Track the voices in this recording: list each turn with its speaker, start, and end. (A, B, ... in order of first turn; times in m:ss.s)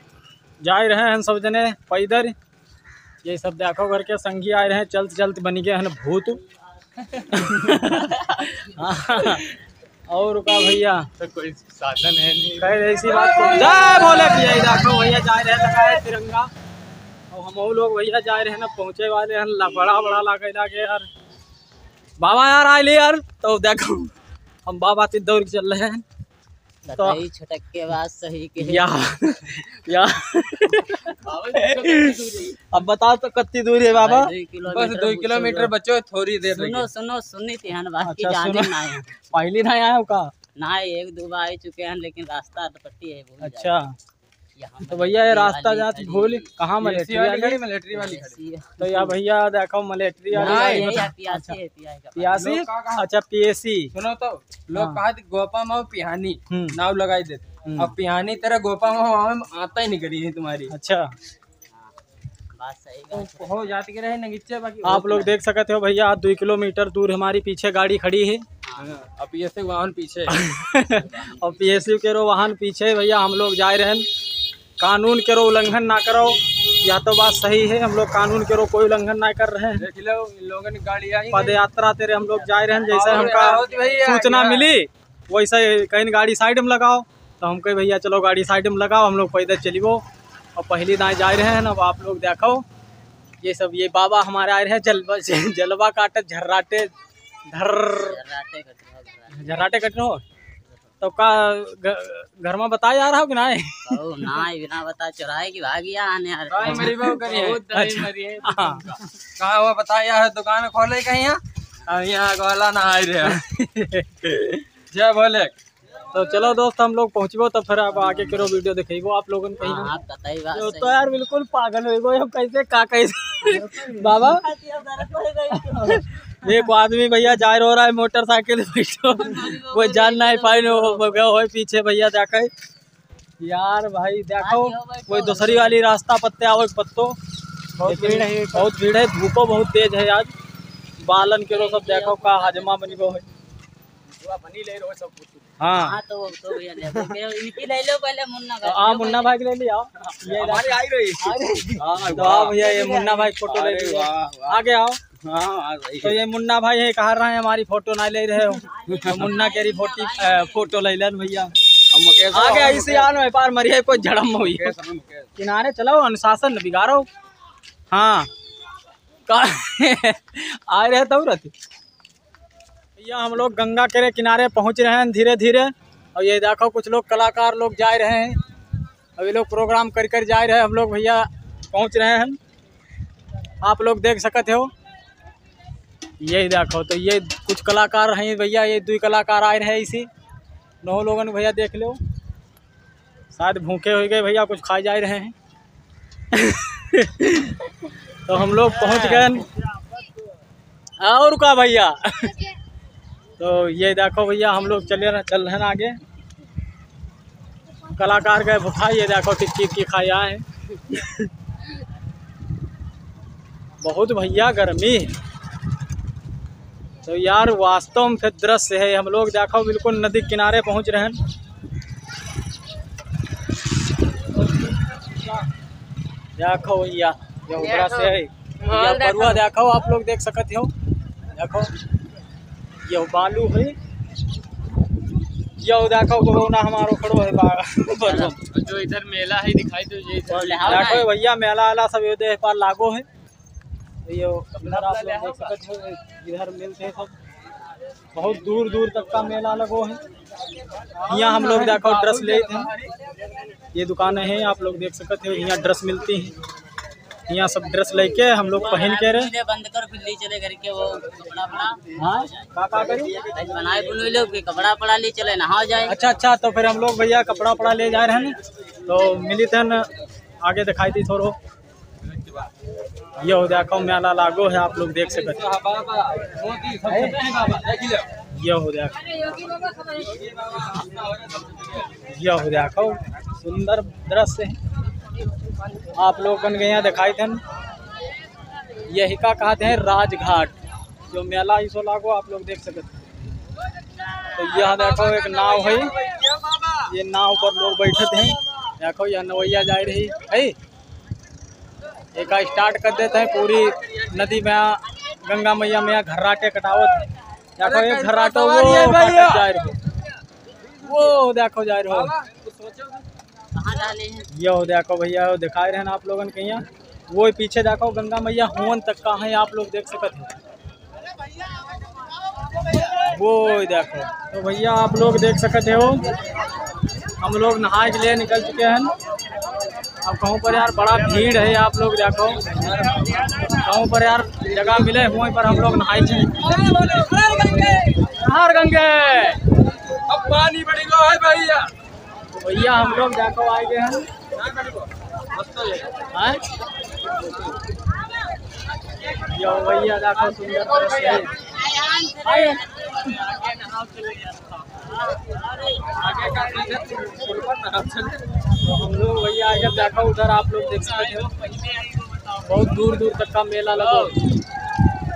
0:00.6-0:02.3 A
0:03.2-0:06.4 A
0:07.3-0:09.5 A
0:10.1-0:11.1 A
0:11.2-0:13.9 B
0:12.6-0:16.5 A
0:17.3-0:21.1 A
0:22.2-0:24.1 A
0:24.6-0:26.0 A
0:26.8-0:29.1 C
0:27.0-0:27.2 A
0:28.6-0:34.3 A
0:31.2-0:32.6 B
0:33.9-0:35.7 C
0:34.7-0:36.9 B
0:36.5-0:39.1 C
0:38.0-0:40.3 A
0:40.6-0:43.8 C
0:43.4-0:43.9 A
0:44.6-0:46.4 C
0:44.9-0:47.6 A
0:46.8-0:48.4 B
0:47.9-0:48.7 C
0:48.8-0:51.6 A
0:50.3-0:52.4 C
0:50.3-0:51.1 B
0:52.1-0:53.9 A
0:52.3-0:53.0 B
0:53.9-1:00.7 B
0:54.7-0:55.0 A
0:56.5-0:56.8 A
0:57.6-0:57.9 A
1:00.7-1:01.1 A
1:02.5-1:03.5 C
1:03.1-1:05.2 B
1:04.8-1:08.4 A
1:08.8-1:10.4 B
1:10.3-1:14.1 A
1:14.8-1:19.8 A
1:19.8-1:21.6 B
1:21.3-1:30.0 A
1:22.3-1:24.0 C
1:22.9-1:24.7 B
1:30.6-1:32.6 A
1:33.4-1:36.9 A
1:37.5-1:38.2 A
1:38.0-1:39.8 C
1:39.3-1:40.2 A
1:41.0-1:44.0 A
1:43.9-1:47.0 C
1:46.5-1:53.4 B
1:46.6-1:48.9 A
1:53.3-1:54.5 A
1:54.9-1:55.5 B
1:56.1-1:59.9 A
1:59.6-2:01.0 C
2:00.5-2:04.4 A
2:03.8-2:06.0 C
2:05.8-2:12.5 A
2:09.2-2:11.2 C
2:13.4-2:17.2 A
2:14.4-2:15.8 C
2:17.8-2:18.7 B
2:17.8-2:20.3 A
2:21.0-2:23.3 A
2:21.4-2:23.0 C
2:24.2-2:25.4 B
2:25.6-2:26.0 A
2:25.7-2:29.3 C
2:28.6-2:30.8 A
2:30.2-2:34.6 B
2:32.0-2:35.0 A
2:35.2-2:36.2 B
2:36.0-2:41.5 A
2:38.7-2:40.7 C
2:38.9-2:39.3 B
2:41.9-2:43.1 B
2:42.3-2:44.8 A
2:44.5-2:45.3 B
2:45.4-2:47.1 A
2:47.9-2:48.3 A
2:49.3-2:51.5 A
2:53.0-2:58.4 A
2:59.2-3:02.4 A
3:03.6-3:04.7 A
3:06.2-3:10.1 A
3:10.8-3:12.0 A
3:13.3-3:15.3 A
3:16.3-3:17.6 A
3:18.2-3:19.4 A
3:21.0-3:22.4 A
3:23.4-3:26.0 A
3:28.0-3:31.2 A
3:33.8-3:35.1 A
3:37.0-3:41.2 A
3:46.4-3:50.7 A
3:47.6-3:48.0 B
3:48.6-3:49.4 B
3:51.3-3:51.7 A
3:52.8-3:53.8 A
3:55.6-3:58.4 A
3:58.0-3:58.4 C
3:58.5-4:00.8 B
4:00.3-4:01.1 C
4:00.6-4:03.0 A
4:04.0-4:07.1 A
4:04.6-4:05.5 B
4:08.1-4:10.0 A
4:11.1-4:12.7 A
4:11.1-4:12.8 B
4:13.7-4:16.3 A
4:17.3-4:19.3 A
4:18.6-4:21.8 C
4:22.0-4:23.1 A
4:23.3-4:25.9 C
4:25.9-4:29.9 A
4:30.4-4:31.4 A
4:33.2-4:35.4 A
4:35.1-4:38.1 B
4:36.9-4:37.2 A
4:38.3-4:39.0 A
4:39.8-4:41.9 B
4:42.0-4:44.6 A
4:45.9-4:47.4 A
4:48.9-4:50.5 A
4:51.1-4:53.0 A
4:54.3-4:56.0 A
4:56.8-5:00.5 A
5:02.1-5:09.8 A
5:07.6-5:09.5 B
5:10.8-5:12.1 A
5:11.9-5:13.0 B
5:13.5-5:14.3 C
5:14.3-5:20.3 A
5:23.0-5:26.1 A
5:27.2-5:28.9 A
5:30.0-5:32.6 A
5:32.5-5:33.2 B
5:33.5-5:36.4 A
5:36.6-5:37.9 B
5:38.0-5:39.4 A
5:39.9-5:41.7 B
5:42.3-5:44.1 A
5:44.4-5:45.9 B
5:46.1-5:46.4 A
5:49.3-5:51.3 A
5:51.5-5:52.9 C
5:53.7-5:54.0 B
5:55.9-5:58.2 B
5:58.6-6:01.3 A
6:02.4-6:04.2 A